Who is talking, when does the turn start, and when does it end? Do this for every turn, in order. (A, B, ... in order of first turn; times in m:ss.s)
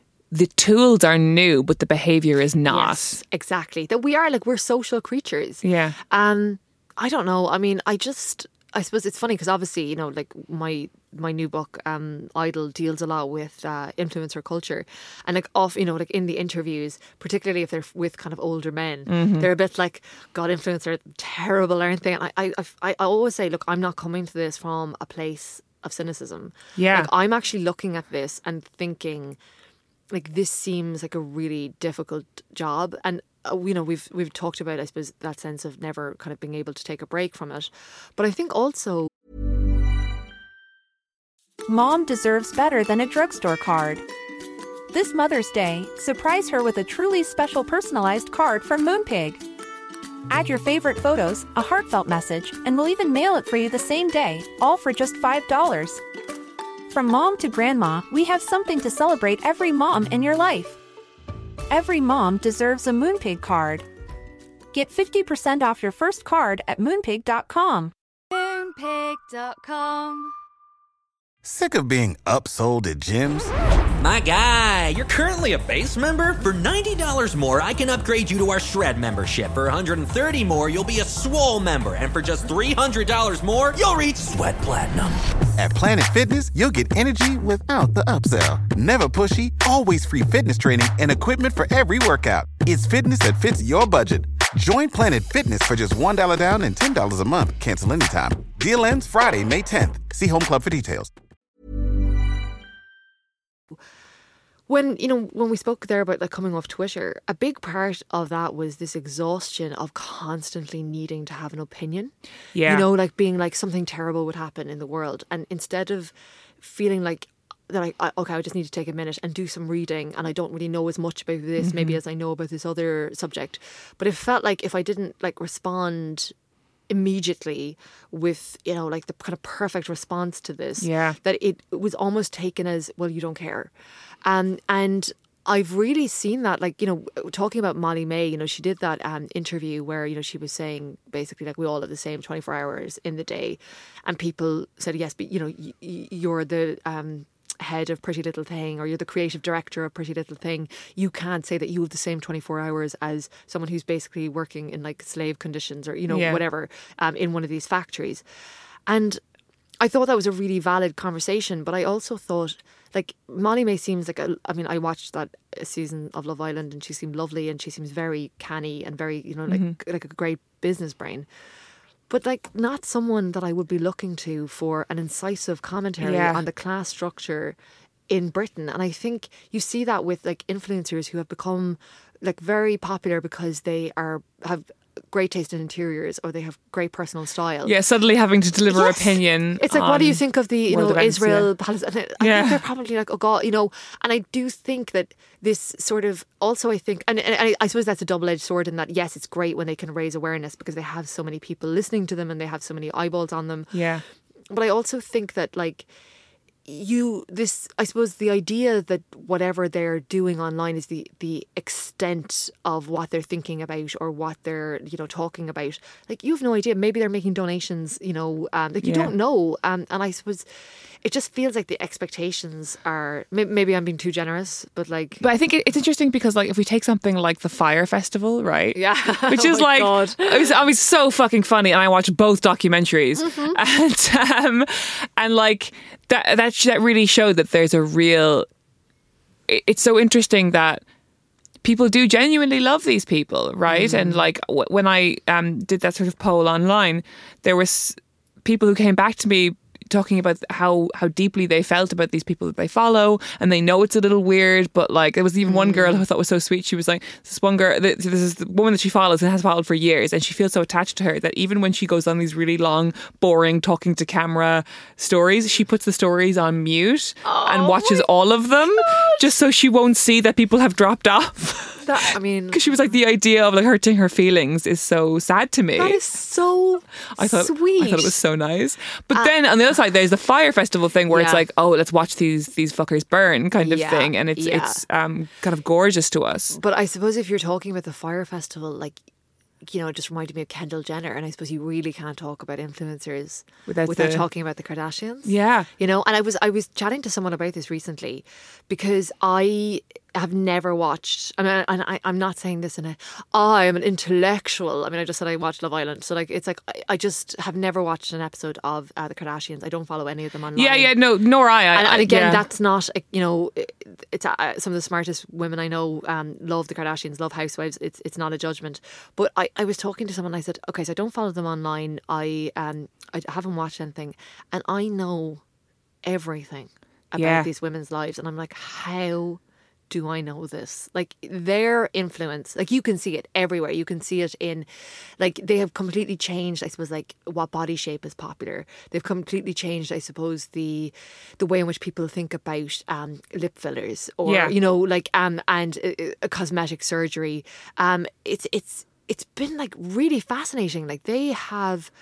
0:00.3-0:03.2 A
0:02.7-0:29.4 B
0:05.6-0:06.0 A
0:19.1-0:19.5 A
0:26.8-0:27.1 A
0:30.1-0:39.1 B
0:41.7-0:44.0 C
0:44.9-0:49.4 C
0:50.3-0:56.0 C
0:56.9-1:00.8 C
1:01.7-1:03.9 C
1:04.7-1:07.9 C
1:08.3-1:10.3 D
1:11.4-1:13.5 E
1:14.0-1:25.2 F
1:25.6-1:41.1 E
1:44.7-2:06.3 B
1:52.6-1:52.9 A
2:01.6-2:02.0 A
2:06.9-2:13.7 B
2:10.8-2:11.2 A
2:14.2-2:38.2 B
2:36.1-2:36.4 A
2:38.9-2:39.2 B
2:39.8-2:51.3 B
2:49.5-2:49.8 A
2:52.1-2:57.6 B
2:56.0-2:56.4 A
2:58.1-3:07.7 B
3:07.6-3:11.5 A
3:08.7-3:23.9 B
3:12.2-3:12.6 A
3:23.7-3:24.0 A
3:24.5-3:25.9 B
3:26.7-3:40.5 B
3:38.8-3:39.1 A
3:41.0-3:45.2 B
3:45.2-3:58.5 A
3:48.8-3:50.6 B
3:53.2-3:53.6 B
3:59.5-4:00.8 A
4:01.6-4:31.9 A
4:03.7-4:04.2 B
4:15.4-4:16.0 B
4:27.2-4:28.1 B
4:28.6-4:29.3 B
4:31.8-4:32.9 B
4:32.5-4:36.0 A
4:35.8-4:38.2 B
4:37.2-4:46.6 A
4:41.1-4:41.4 B
4:43.6-4:44.8 B
4:46.5-4:49.0 B
4:49.6-5:11.0 B
4:53.7-4:54.2 A
4:55.2-4:55.7 A
5:10.6-5:12.4 A
5:11.7-5:25.4 B
5:26.0-5:34.7 B
5:27.2-5:27.5 A
5:35.2-5:51.9 B
5:44.3-5:44.6 A